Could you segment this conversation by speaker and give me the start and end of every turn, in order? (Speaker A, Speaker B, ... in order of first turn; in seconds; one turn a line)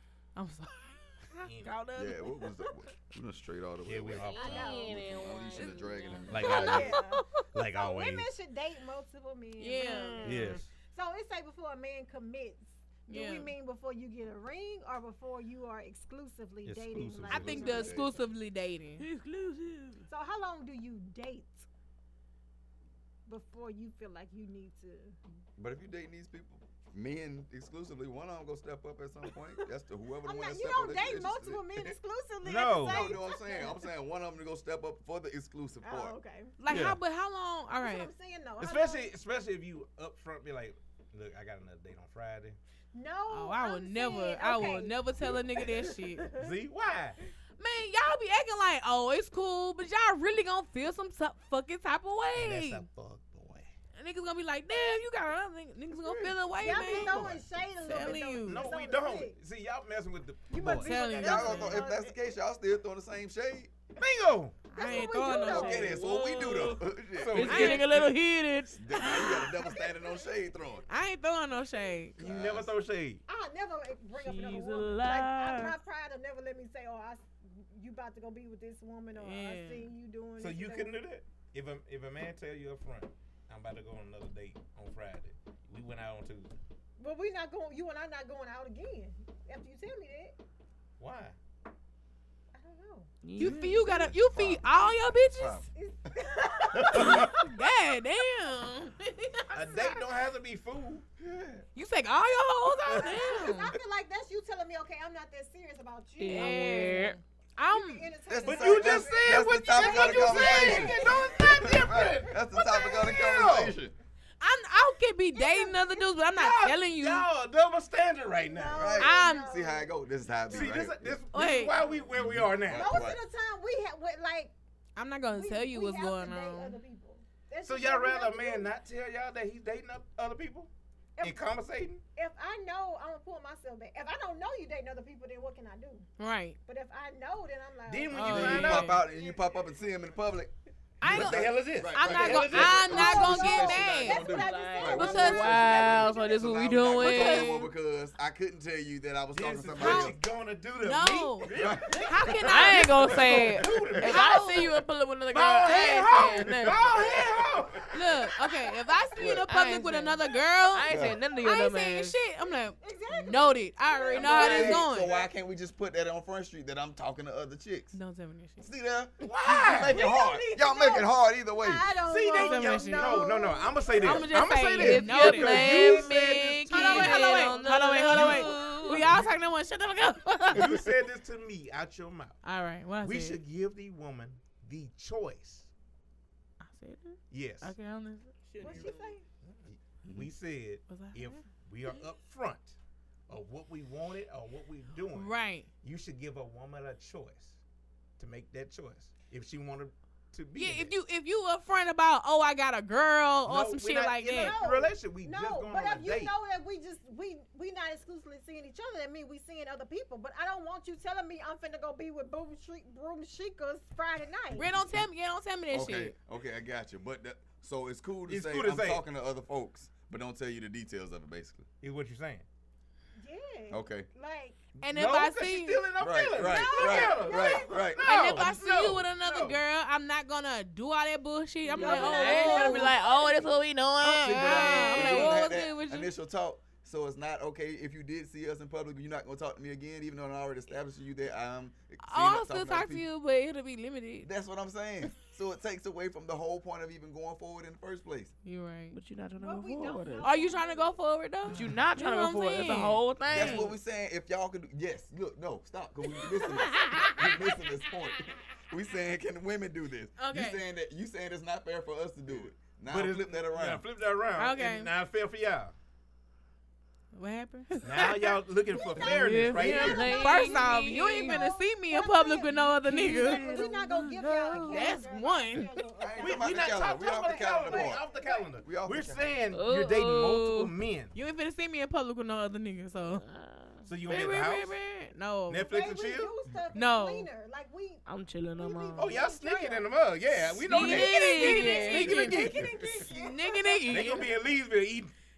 Speaker A: 0.3-2.8
Speaker B: 1.4-1.8
Speaker C: 1.9-6.8
Speaker B: 3.8-4.8
Speaker D: 4.2-6.7
Speaker E: 4.3-5.0
Speaker A: 5.6-7.5
Speaker B: 6.3-8.3
Speaker E: 6.3-18.2
Speaker A: 9.6-10.5
Speaker D: 9.8-10.6
Speaker B: 10.2-10.7
Speaker A: 13.1-13.5
Speaker B: 16.6-17.9
Speaker A: 17.3-19.0
Speaker C: 17.4-18.1
Speaker D: 19.0-20.1
Speaker E: 20.1-21.7
Speaker E: 23.2-25.2
Speaker C: 25.6-31.9
Speaker E: 30.2-33.9
Speaker B: 32.4-33.1
Speaker C: 32.8-36.2
Speaker E: 35.8-36.5
Speaker A: 36.6-38.1
Speaker B: 36.7-37.0
Speaker E: 37.8-39.1
Speaker B: 38.6-42.6
Speaker E: 42.9-46.5
Speaker A: 43.3-46.3
Speaker B: 46.3-47.2
Speaker A: 47.6-52.9
Speaker B: 52.3-53.7
Speaker A: 53.9-58.6
Speaker E: 54.7-55.0
Speaker E: 56.6-59.4
Speaker B: 56.6-61.0
Speaker E: 60.5-62.3
Speaker A: 60.8-61.9
Speaker C: 61.1-63.7
Speaker B: 64.0-64.6
Speaker A: 64.7-65.9
Speaker E: 64.7-66.1
Speaker D: 65.0-69.0
Speaker C: 65.2-67.6
Speaker B: 67.1-68.1
Speaker A: 67.4-68.1
Speaker C: 68.7-70.8
Speaker A: 69.0-69.7
Speaker A: 70.9-72.2
Speaker C: 72.2-72.7
Speaker B: 72.2-73.2
Speaker E: 73.3-81.0
Speaker D: 74.1-75.8
Speaker A: 79.1-79.9
Speaker B: 80.4-86.5
Speaker E: 87.0-90.4
Speaker B: 91.0-91.3
Speaker E: 92.5-93.1
Speaker D: 93.2-93.8
Speaker A: 93.4-95.7
Speaker C: 93.4-95.7
Speaker E: 95.7-97.4
Speaker C: 96.7-97.3
Speaker A: 96.9-99.9
Speaker B: 99.5-101.1
Speaker A: 101.7-103.7
Speaker B: 102.8-103.3
Speaker E: 102.9-113.2
Speaker D: 106.2-107.2
Speaker A: 106.3-108.1
Speaker C: 108.3-113.9
Speaker B: 108.4-112.4
Speaker B: 113.1-113.8
Speaker A: 114.4-117.2
Speaker E: 115.3-116.1
Speaker B: 116.3-119.0
Speaker E: 118.5-120.8
Speaker C: 118.7-121.2
Speaker A: 119.0-119.5
Speaker B: 120.5-123.1
Speaker A: 121.3-121.8
Speaker C: 122.0-123.2
Speaker E: 122.7-124.5
Speaker A: 125.0-126.8
Speaker E: 125.3-128.7
Speaker B: 127.6-130.7
Speaker E: 131.2-131.5
Speaker B: 131.2-132.0
Speaker E: 132.2-136.1
Speaker A: 136.2-136.6
Speaker E: 136.6-139.7
Speaker B: 137.9-138.9
Speaker A: 138.1-139.0
Speaker C: 138.2-150.2
Speaker A: 141.0-144.3
Speaker B: 141.0-143.3
Speaker E: 142.8-146.4
Speaker D: 144.2-147.7
Speaker A: 144.9-145.4
Speaker A: 147.0-147.6
Speaker B: 149.3-154.5
Speaker A: 149.8-150.1
Speaker A: 150.8-154.8
Speaker C: 151.5-152.5
Speaker D: 152.4-157.2
Speaker C: 153.6-153.9
Speaker B: 155.3-158.2
Speaker C: 156.5-157.2
Speaker A: 157.9-165.2
Speaker C: 159.2-159.5
Speaker D: 159.3-162.2
Speaker C: 160.9-161.2
Speaker E: 162.8-165.3
Speaker D: 164.1-164.7
Speaker C: 164.2-168.0
Speaker A: 167.9-168.7
Speaker C: 168.6-171.9
Speaker B: 169.2-170.0
Speaker E: 169.8-174.4
Speaker B: 172.0-179.3
Speaker A: 172.3-173.3
Speaker A: 173.9-180.9
Speaker D: 174.4-179.1
Speaker B: 180.5-182.4
Speaker A: 182.4-183.4
Speaker B: 183.0-185.7
Speaker A: 186.6-188.3
Speaker B: 187.3-187.7
Speaker D: 188.4-189.1
Speaker E: 188.6-189.2
Speaker B: 189.6-192.8
Speaker C: 190.0-190.3
Speaker A: 190.9-191.4
Speaker B: 193.3-197.6
Speaker A: 195.1-195.7
Speaker B: 198.2-200.9
Speaker A: 200.6-204.6
Speaker B: 203.4-206.3
Speaker E: 204.3-214.7
Speaker A: 214.6-216.2
Speaker C: 215.7-221.7
Speaker B: 218.3-219.0
Speaker B: 221.8-222.4
Speaker E: 223.2-224.6
Speaker C: 223.7-224.1
Speaker A: 224.8-225.9
Speaker B: 224.8-229.6
Speaker C: 226.0-228.4
Speaker E: 226.3-227.9
Speaker A: 228.0-233.0
Speaker E: 231.7-233.6
Speaker D: 231.7-235.4
Speaker A: 234.0-236.1
Speaker C: 234.2-243.1
Speaker A: 242.0-244.3
Speaker C: 244.2-248.3
Speaker A: 248.4-249.0
Speaker D: 248.9-250.3
Speaker E: 249.4-251.0
Speaker A: 250.2-253.7
Speaker D: 251.5-253.7
Speaker C: 253.3-263.8
Speaker A: 256.5-257.4
Speaker A: 260.2-260.6
Speaker B: 262.3-265.7
Speaker A: 264.4-264.9
Speaker A: 267.1-268.4
Speaker B: 267.8-270.1
Speaker E: 268.7-278.6
Speaker D: 269.0-271.4
Speaker C: 269.5-270.0
Speaker A: 270.0-273.6
Speaker D: 272.8-275.0
Speaker A: 274.6-275.8
Speaker C: 276.0-278.0
Speaker B: 276.2-281.1
Speaker C: 278.6-279.2
Speaker D: 279.5-280.7
Speaker A: 281.1-283.2
Speaker D: 283.1-284.8
Speaker B: 283.9-284.7
Speaker A: 284.1-285.7
Speaker B: 285.5-286.3
Speaker E: 285.6-288.0
Speaker A: 286.7-287.3
Speaker D: 288.1-289.1
Speaker E: 288.6-289.9
Speaker B: 289.0-293.1
Speaker E: 290.5-294.2
Speaker D: 290.6-292.2
Speaker A: 290.7-294.3
Speaker B: 293.9-295.1